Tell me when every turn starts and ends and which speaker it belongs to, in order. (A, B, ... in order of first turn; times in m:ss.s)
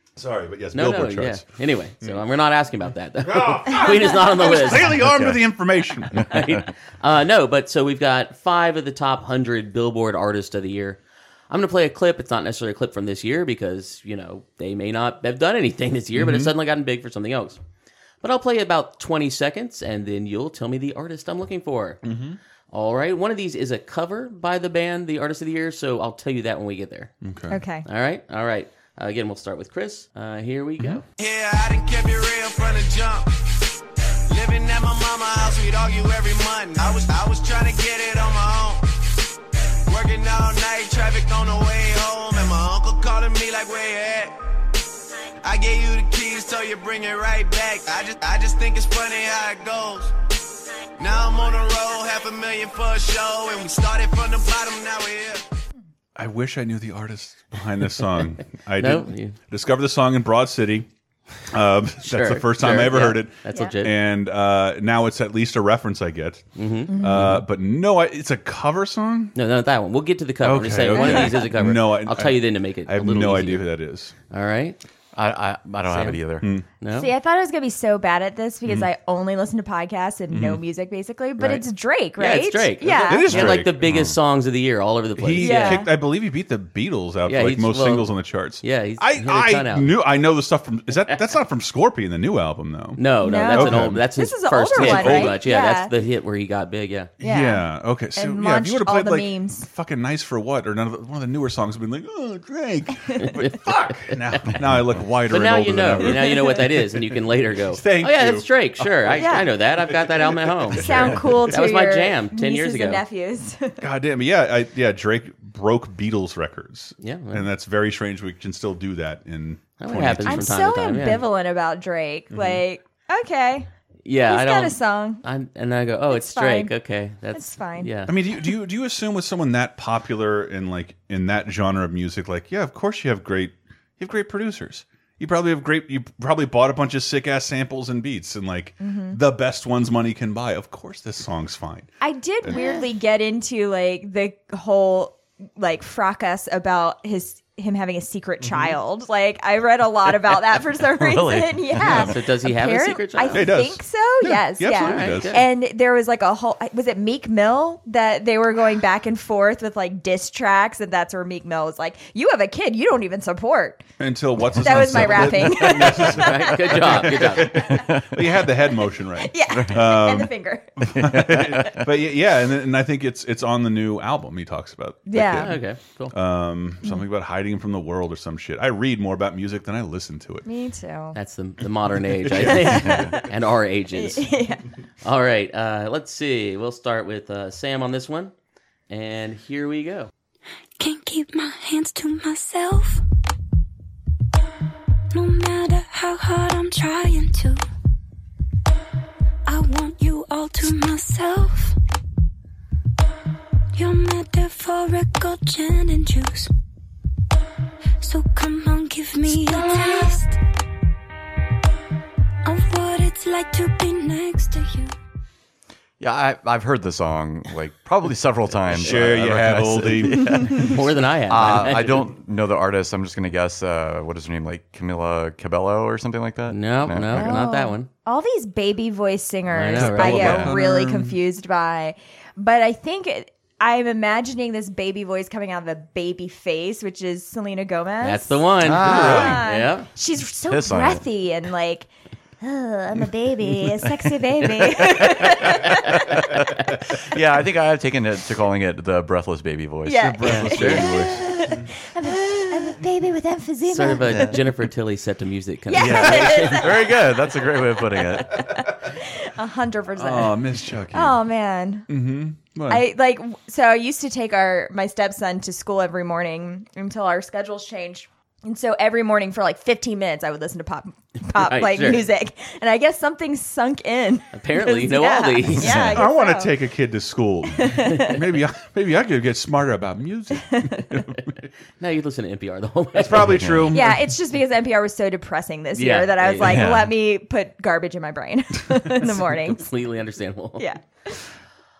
0:00.2-0:01.4 A
0:00.7-0:05.4 B
0:03.2-0:06.3 A
0:06.1-0:11.0 B
0:11.5-0:17.6 B
0:16.2-0:16.5 A
0:18.2-0:22.0 B
0:22.0-0:22.4 A
0:22.7-0:27.1 B
0:27.2-0:27.6 A
0:27.5-0:27.9 C
0:27.8-0:31.0 B
0:31.2-0:33.4 D
0:34.3-0:38.8 D
0:39.9-0:44.4 D
0:45.4-0:50.2 D
0:51.0-0:55.5 D
0:56.2-1:00.9 A
0:58.8-0:59.4 B
1:01.5-1:09.3 A
1:02.0-1:03.9 B
1:03.5-1:03.8 C
1:06.6-1:07.4 B
1:06.9-1:07.4 C
1:09.4-1:13.7 B
1:10.4-1:14.1 A
1:10.9-1:11.5 C
1:14.3-1:14.8 B
1:15.2-1:16.5 E
1:15.9-1:16.2 B
1:16.4-1:16.7 A
1:16.8-1:17.1 B
1:16.9-1:23.5 C
1:20.3-1:20.6 A
1:21.4-1:25.9 B
1:22.9-1:23.8 A
1:23.4-1:24.2 E
1:25.2-1:34.0 A
1:25.4-1:25.9 C
1:27.3-1:30.0 B
1:33.0-1:37.1 B
1:33.2-1:35.9 C
1:34.8-1:35.4 A
1:37.2-1:47.0 A
1:37.2-1:39.7 C
1:43.2-1:44.6 B
1:45.3-1:53.0 B
1:46.1-1:46.6 C
1:47.7-1:51.4 A
1:49.2-1:49.5 C
1:50.7-1:53.8 C
1:53.8-2:00.5 A
1:57.0-1:57.5 B
1:59.8-2:01.3 B
2:00.3-2:03.7 C
2:02.3-2:02.6 A
2:04.0-2:08.1 B
2:04.3-2:05.2 C
2:06.1-2:06.7 C
2:07.3-2:07.9 C
2:08.1-2:22.7 A
2:18.8-2:19.2 C
2:22.0-2:43.8 C
2:28.4-2:28.7 A
2:30.8-2:32.2 E
2:31.8-2:33.5 B
2:33.3-2:35.4 A
2:34.8-2:35.5 B
2:44.0-2:55.6 A
2:44.5-2:48.0 C
2:44.7-2:45.2 E
2:45.5-2:47.7 B
2:47.6-2:48.2 E
2:49.1-2:51.0 C
2:49.5-2:50.0 E
2:50.9-2:51.8 E
2:55.1-2:55.6 C
2:55.2-2:56.1 B
2:56.1-3:00.5 A
3:00.4-3:01.2 C
3:01.2-3:04.3 B
3:02.3-3:02.9 A
3:02.4-3:03.3 C
3:03.9-3:04.7 C
3:05.0-3:08.3 B
3:08.9-3:10.1 B
3:10.8-3:13.0 F
3:15.1-3:17.6 F
3:19.5-3:21.8 F
3:23.7-3:26.5 F
3:28.0-3:30.4 F
3:32.4-3:34.9 F
3:36.0-3:47.4 E
3:38.7-3:40.4 A
3:38.7-3:39.0 B
3:40.2-3:42.1 B
3:46.5-3:47.9 B
3:47.1-4:01.9 C
3:49.5-3:50.5 B
3:49.8-3:51.2 A
3:50.2-3:50.5 E
3:58.0-3:59.9 B
3:58.6-3:59.4 E
3:58.8-3:59.4 A
4:00.5-4:01.1 E
4:02.4-4:06.3 C
4:03.6-4:11.4 E
4:09.8-4:14.4 C
4:10.0-4:11.7 A
4:10.2-4:10.9 B
4:13.7-4:16.8 B
4:14.1-4:14.4 E
4:15.7-4:17.0 C
4:15.7-4:18.5 E
4:18.2-4:21.9 C
4:20.0-4:21.2 A
4:21.9-4:22.8 A
4:22.7-4:36.6 C
4:31.3-4:32.1 B
4:34.4-4:36.0 B
4:35.9-4:41.3 A
4:37.5-4:38.2 C
4:40.5-4:40.8 C
4:41.8-4:43.4 B
4:43.0-4:44.0 A
4:43.2-4:43.8 E
4:43.7-4:49.6 C
4:45.7-4:46.7 B
4:46.4-4:46.9 E
4:49.0-4:50.7 B
4:50.6-4:51.2 C